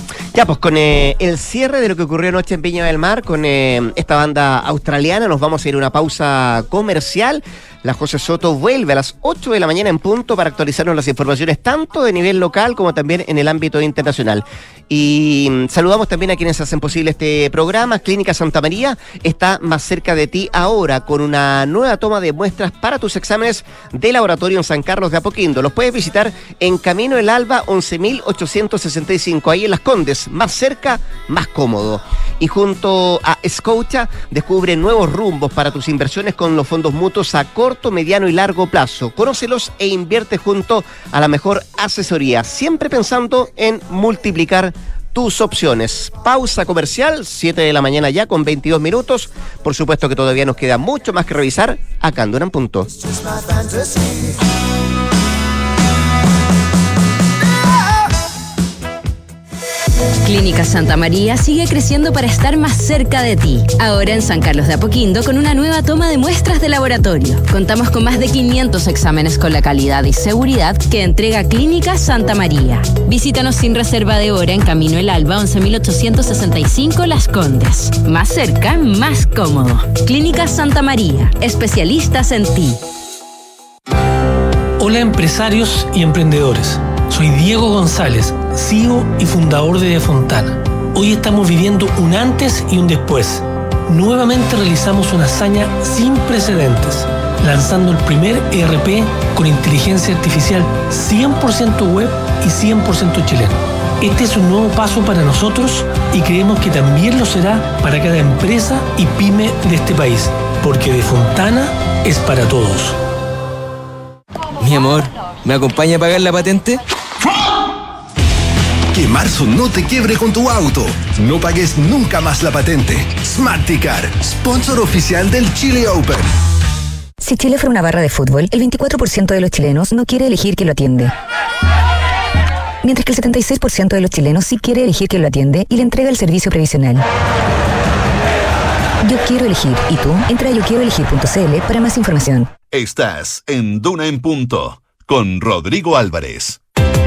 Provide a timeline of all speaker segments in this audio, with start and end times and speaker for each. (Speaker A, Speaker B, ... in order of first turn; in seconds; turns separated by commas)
Speaker A: 0.3-52.9, Speaker B: 60.2-82.8, Speaker C: 84.8-113.0, Speaker D: 114.6-116.8, Speaker E: 118.9-126.3, Speaker F: 127.2-131.1, Speaker F: 132.8-137.0, Speaker F: 139.0-142.5, Speaker G: 142.7-146.6